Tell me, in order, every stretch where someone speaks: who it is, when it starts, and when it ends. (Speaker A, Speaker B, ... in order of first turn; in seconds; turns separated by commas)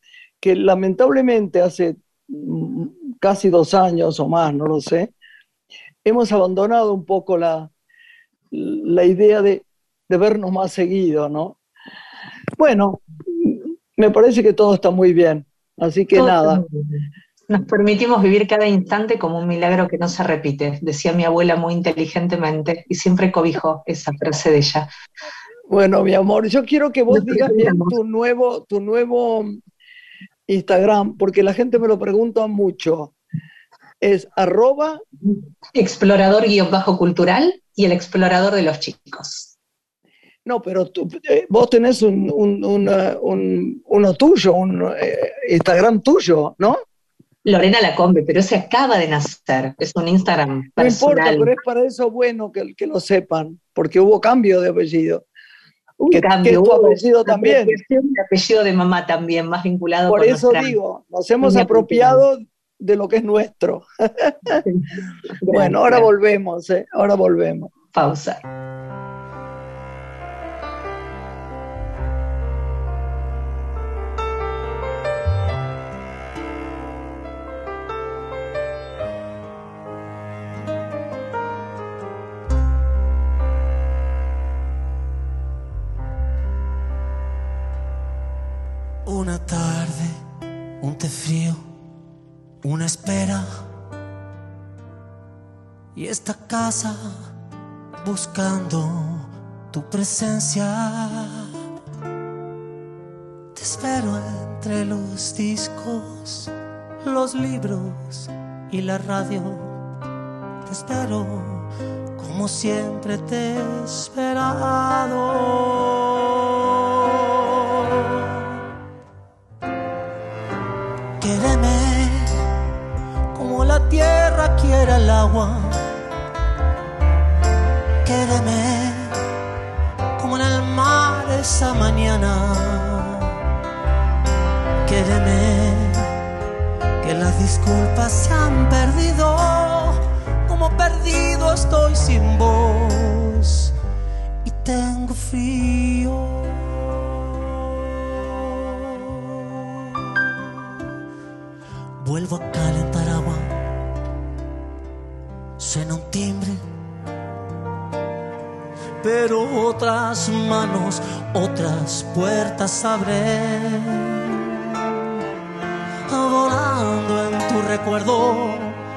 Speaker A: 0.4-5.1, Speaker A: 6.0-7.7, Speaker A: 8.5-11.6, Speaker A: 12.6-16.6, Speaker B: 16.1-24.9, Speaker A: 25.7-29.6, Speaker B: 27.1-28.0, Speaker A: 30.5-33.1, Speaker A: 34.0-35.0, Speaker B: 35.8-39.5, Speaker A: 40.5-46.8, Speaker B: 47.5-51.5, Speaker A: 50.8-55.2, Speaker B: 56.0-60.7, Speaker A: 56.1-57.8, Speaker A: 60.1-64.6, Speaker B: 61.4-62.2, Speaker B: 64.5-64.9, Speaker B: 65.4-66.1, Speaker A: 65.5-67.7, Speaker B: 67.9-68.4, Speaker C: 89.1-90.2, Speaker C: 90.8-91.6, Speaker C: 92.6-93.5, Speaker C: 96.0-97.0, Speaker C: 98.0-101.5, Speaker C: 103.5-106.5, Speaker C: 107.0-109.7, Speaker C: 110.7-118.5, Speaker C: 121.2-122.3, Speaker C: 123.3-125.8, Speaker C: 128.0-129.2, Speaker C: 130.2-133.3, Speaker C: 134.9-136.1, Speaker C: 137.0-143.7, Speaker C: 144.4-150.5, Speaker C: 152.0-153.5, Speaker C: 155.6-156.6, Speaker C: 159.0-164.3, Speaker C: 166.1-168.8